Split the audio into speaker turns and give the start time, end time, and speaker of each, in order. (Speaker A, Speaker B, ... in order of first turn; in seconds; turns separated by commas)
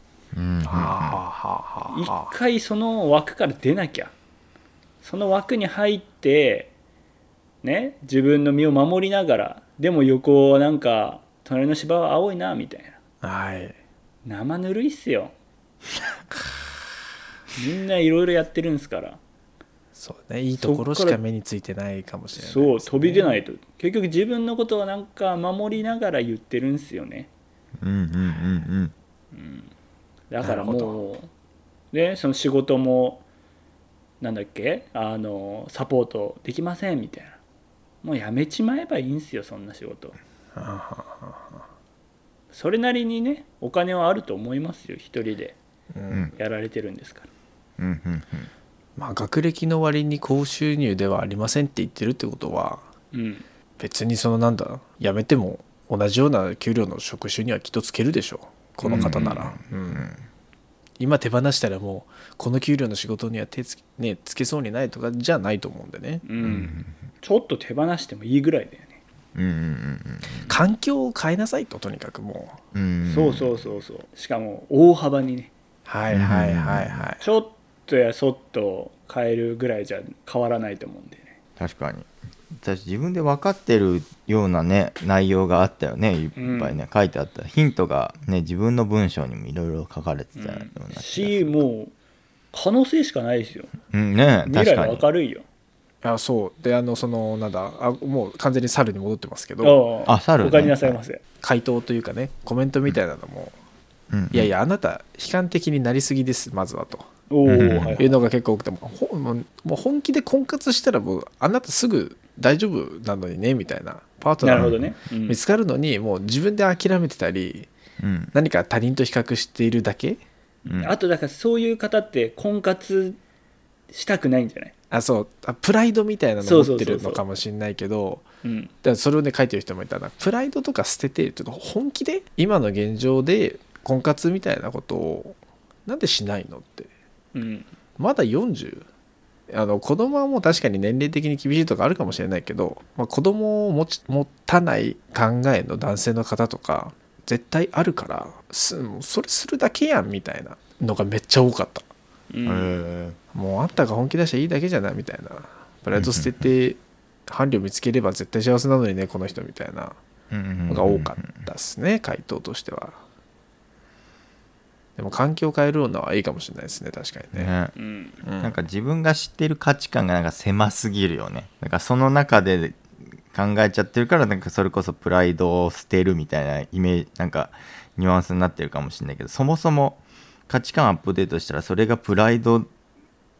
Speaker A: 0.3-1.2, Speaker B: 0.7-2.3, Speaker C: 1.9-4.1, Speaker C: 5.0-6.7, Speaker C: 7.6-13.0, Speaker B: 13.2-13.8, Speaker C: 14.2-15.3, Speaker C: 17.5-19.2, Speaker B: 19.9-23.4, Speaker C: 20.6-21.2, Speaker C: 22.4-27.3, Speaker A: 27.8-28.9, Speaker C: 29.3-29.7, Speaker C: 30.3-31.3, Speaker B: 30.4-31.0, Speaker C: 31.9-33.2, Speaker C: 34.2-37.4, Speaker C: 38.0-40.2, Speaker B: 40.5-41.6, Speaker C: 42.5-45.5, Speaker B: 45.9-46.3, Speaker C: 46.4-47.3, Speaker A: 47.8-48.5, Speaker B: 49.0-52.9, Speaker C: 53.1-53.4, Speaker B: 53.8-60.1, Speaker C: 58.8-59.4, Speaker A: 58.9-60.2, Speaker B: 61.0-66.2, Speaker C: 66.2-69.0, Speaker A: 66.4-66.9, Speaker A: 69.3-70.5, Speaker B: 70.5-72.6, Speaker A: 72.7-73.6, Speaker C: 73.0-75.5, Speaker B: 75.8-77.2, Speaker A: 76.1-77.0, Speaker C: 77.2-81.3, Speaker A: 81.6-91.6, Speaker C: 86.4-86.8, Speaker C: 90.3-91.9, Speaker C: 92.5-93.7, Speaker A: 93.9-95.0, Speaker C: 94.5-95.4, Speaker B: 96.0-99.8, Speaker C: 99.6-101.2, Speaker A: 100.1-101.0, Speaker B: 101.4-103.5, Speaker A: 104.1-104.5, Speaker B: 104.3-107.1, Speaker C: 107.3-108.2, Speaker A: 107.5-107.9, Speaker B: 108.0-117.7, Speaker C: 114.4-115.4, Speaker A: 114.5-114.8, Speaker A: 118.0-118.3, Speaker B: 118.3-120.2, Speaker C: 120.6-123.2, Speaker A: 120.7-120.9, Speaker C: 123.9-124.7, Speaker B: 124.9-128.2, Speaker C: 126.4-127.2, Speaker C: 128.4-128.7, Speaker B: 128.8-136.9, Speaker C: 137.3-137.7, Speaker B: 138.0-138.8, Speaker B: 139.5-151.8, Speaker C: 152.3-152.8, Speaker A: 152.4-153.2, Speaker B: 153.3-160.0, Speaker A: 155.9-156.4, Speaker A: 160.3-161.4, Speaker B: 160.7-163.0, Speaker B: 165.0-167.5, Speaker A: 167.3-167.7, Speaker C: 167.8-168.2, Speaker B: 168.2-168.5, Speaker A: 168.4-182.7